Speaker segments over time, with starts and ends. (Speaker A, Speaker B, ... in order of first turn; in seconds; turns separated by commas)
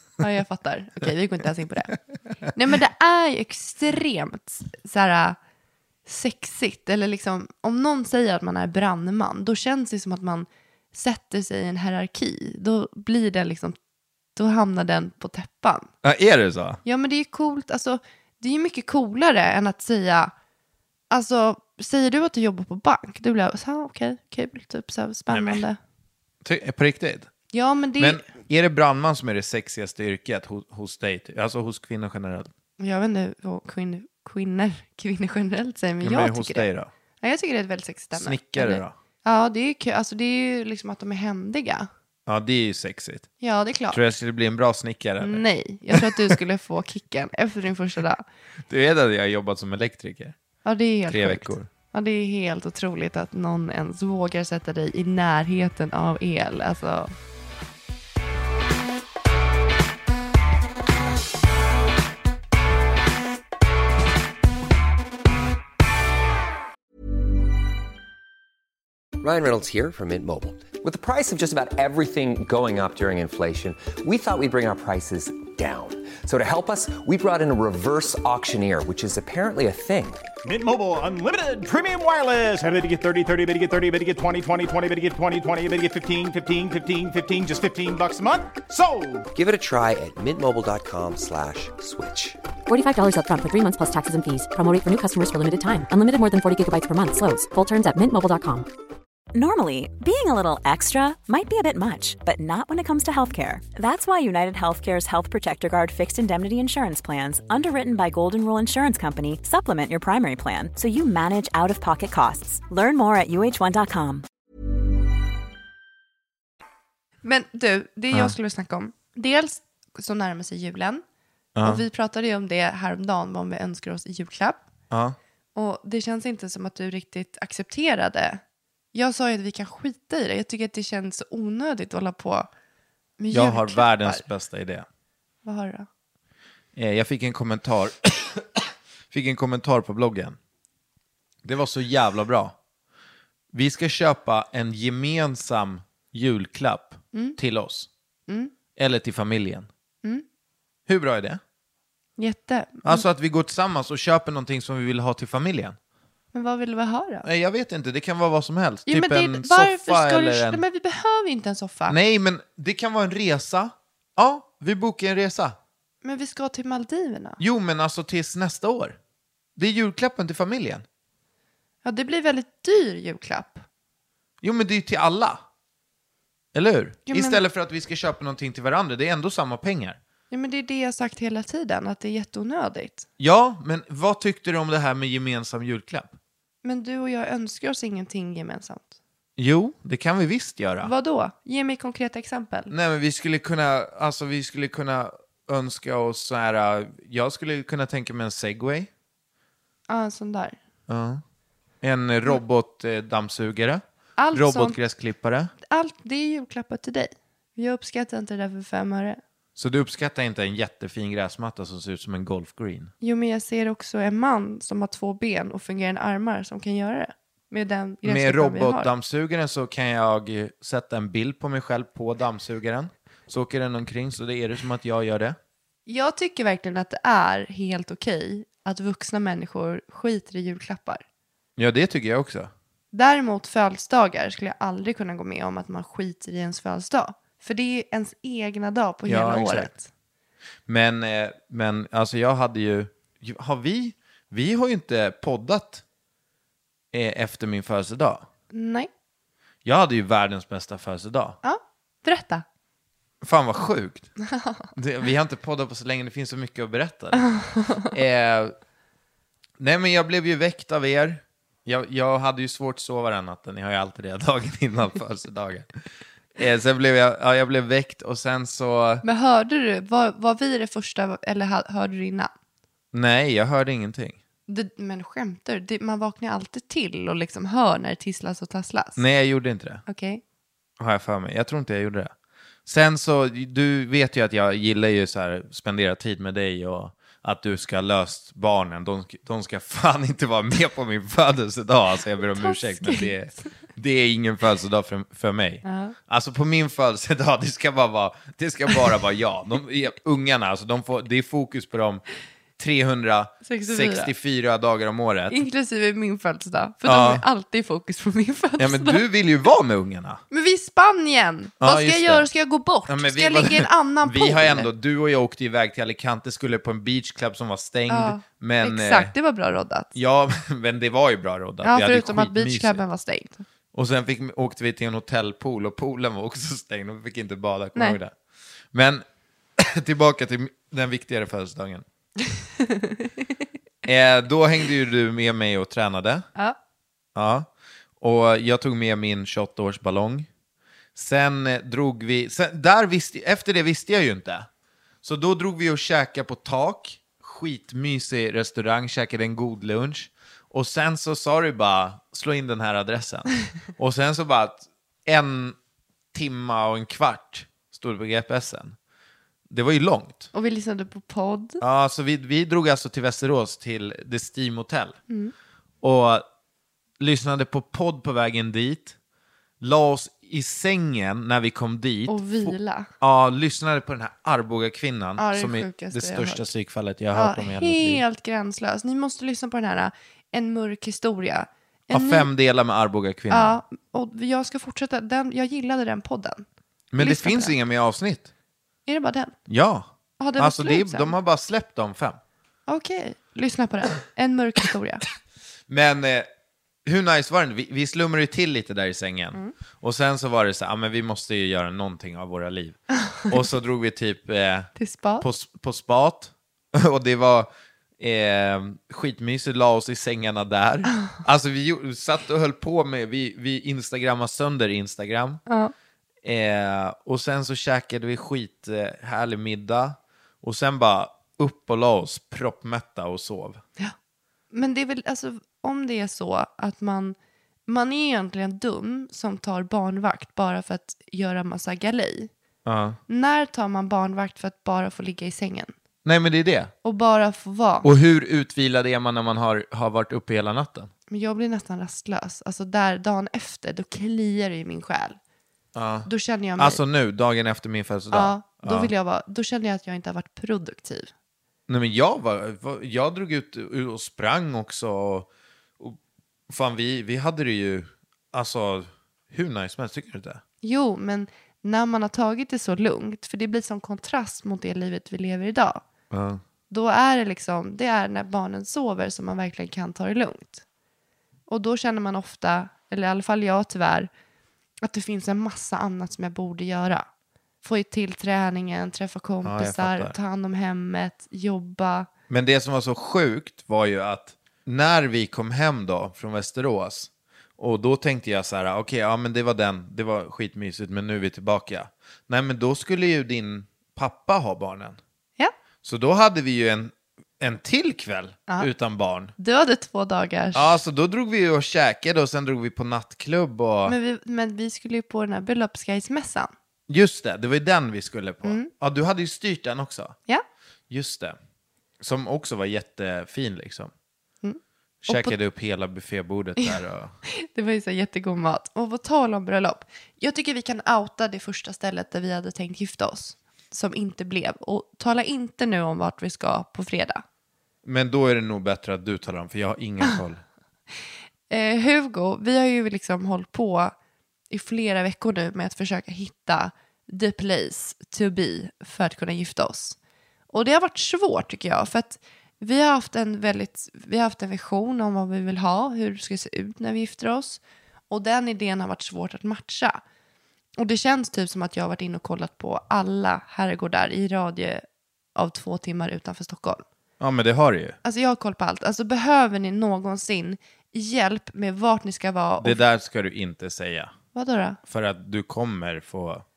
Speaker A: 0.2-1.9, Speaker A: 2.5-5.4, Speaker A: 6.0-13.8, Speaker A: 14.3-15.9, Speaker B: 16.0-16.8, Speaker A: 16.8-20.3, Speaker A: 21.1-25.8, Speaker B: 25.3-25.6, Speaker B: 26.4-27.3, Speaker A: 27.5-28.2, Speaker B: 28.0-32.5, Speaker A: 32.8-36.6, Speaker B: 36.0-36.9, Speaker A: 37.2-41.9, Speaker B: 38.1-38.9, Speaker B: 42.3-43.3, Speaker A: 43.4-44.0, Speaker B: 43.9-46.4, Speaker A: 45.2-48.2, Speaker B: 48.7-50.4, Speaker A: 50.6-57.1, Speaker B: 51.1-51.7, Speaker C: 69.2-80.2, Speaker D: 80.4-89.3, Speaker C: 89.3-92.4, Speaker E: 92.7-98.7, Speaker F: 99.3-114.2, Speaker A: 117.2-121.0, Speaker B: 121.5-121.8, Speaker A: 121.6-124.6, Speaker B: 124.9-125.2, Speaker A: 125.5-128.4, Speaker A: 128.9-132.5, Speaker A: 133.2-134.2, Speaker B: 133.3-134.8, Speaker A: 135.4-135.9, Speaker B: 136.7-140.4, Speaker B: 141.4-142.6, Speaker B: 143.5-147.9, Speaker B: 148.8-149.7, Speaker B: 150.9-151.4, Speaker A: 152.2-153.0, Speaker B: 152.8-155.8, Speaker A: 156.3-157.3, Speaker B: 157.2-160.6, Speaker A: 158.9-161.9, Speaker B: 161.9-165.6, Speaker A: 166.0-167.4, Speaker B: 167.4-169.0, Speaker B: 169.6-170.8, Speaker A: 171.8-173.6, Speaker B: 174.4-175.4, Speaker B: 176.5-180.0, Speaker A: 177.1-177.4, Speaker A: 180.3-183.1, Speaker B: 183.2-186.1, Speaker A: 186.6-188.9, Speaker B: 189.4-190.9, Speaker A: 190.8-192.7, Speaker B: 192.7-198.9, Speaker A: 199.9-200.6, Speaker B: 200.9-201.2, Speaker B: 201.8-205.5, Speaker A: 204.2-204.8, Speaker A: 205.6-209.2, Speaker B: 209.6-212.9, Speaker A: 213.0-218.9, Speaker B: 218.0-225.4, Speaker A: 225.9-231.0, Speaker B: 231.6-232.5, Speaker A: 232.9-239.8, Speaker B: 239.1-239.7, Speaker B: 240.7-245.8, Speaker B: 246.9-248.2, Speaker A: 248.5-248.9, Speaker B: 249.6-251.4, Speaker A: 251.4-252.4, Speaker B: 253.2-254.1, Speaker A: 254.3-254.6, Speaker B: 254.7-258.5, Speaker A: 257.2-257.9, Speaker B: 259.6-265.7, Speaker B: 266.3-269.0, Speaker A: 269.0-272.3, Speaker B: 272.9-274.2, Speaker A: 274.5-279.0, Speaker B: 279.0-279.8, Speaker A: 279.9-280.2, Speaker B: 280.8-282.1, Speaker B: 282.6-302.0, Speaker A: 292.3-293.1, Speaker A: 295.6-295.9, Speaker B: 302.6-305.4, Speaker A: 303.4-304.1, Speaker A: 305.3-309.0, Speaker B: 306.8-307.2, Speaker B: 308.6-310.2, Speaker A: 310.3-314.7, Speaker B: 311.6-312.3, Speaker B: 312.9-319.1, Speaker A: 317.9-319.9, Speaker B: 319.9-322.8, Speaker A: 321.6-323.4, Speaker B: 323.7-328.1, Speaker B: 328.7-329.0, Speaker B: 329.6-331.8, Speaker A: 332.6-333.1, Speaker B: 333.8-336.3, Speaker B: 337.1-337.5, Speaker B: 338.0-340.3, Speaker B: 340.9-344.5, Speaker B: 345.0-355.6, Speaker B: 356.1-358.8, Speaker B: 359.5-360.3, Speaker A: 360.3-361.6, Speaker B: 361.6-365.0, Speaker B: 365.8-366.2, Speaker B: 367.0-368.9, Speaker B: 369.6-378.0, Speaker A: 372.1-372.9, Speaker A: 375.2-376.5, Speaker A: 377.1-382.3, Speaker B: 381.9-383.6, Speaker A: 383.3-386.4, Speaker B: 386.9-388.3, Speaker A: 387.0-387.5, Speaker A: 388.9-389.4, Speaker B: 389.5-392.2, Speaker A: 390.2-391.1, Speaker A: 392.7-395.0, Speaker B: 395.7-396.3, Speaker B: 396.8-415.4, Speaker A: 404.8-405.2, Speaker A: 415.5-415.7, Speaker B: 416.2-423.6, Speaker A: 424.5-427.1, Speaker A: 427.7-432.3, Speaker B: 432.6-433.0, Speaker A: 433.1-435.7, Speaker B: 436.0-436.7, Speaker A: 436.8-437.9, Speaker B: 437.8-440.9, Speaker A: 441.1-445.2, Speaker B: 445.7-448.9, Speaker A: 446.1-446.8, Speaker A: 448.1-451.1, Speaker B: 451.7-455.3, Speaker B: 455.8-460.4, Speaker A: 460.6-465.8, Speaker B: 466.1-466.4, Speaker A: 466.7-470.6, Speaker A: 471.5-474.1, Speaker A: 474.8-477.1, Speaker A: 477.6-482.1, Speaker B: 479.4-480.1, Speaker B: 482.3-495.0, Speaker B: 495.8-499.3, Speaker A: 499.4-500.8, Speaker B: 500.5-503.9, Speaker A: 503.9-506.5, Speaker B: 506.9-510.1, Speaker A: 508.4-508.7, Speaker B: 510.9-511.4, Speaker B: 512.0-513.9, Speaker A: 514.4-515.4, Speaker B: 515.0-517.1, Speaker A: 516.6-527.2, Speaker B: 527.8-530.4, Speaker A: 531.5-533.9, Speaker A: 534.5-540.0, Speaker A: 540.5-550.0, Speaker A: 550.8-554.8, Speaker A: 555.3-556.8, Speaker B: 557.2-558.0, Speaker A: 558.0-562.8, Speaker B: 562.6-564.1, Speaker A: 564.3-564.8, Speaker B: 564.9-566.4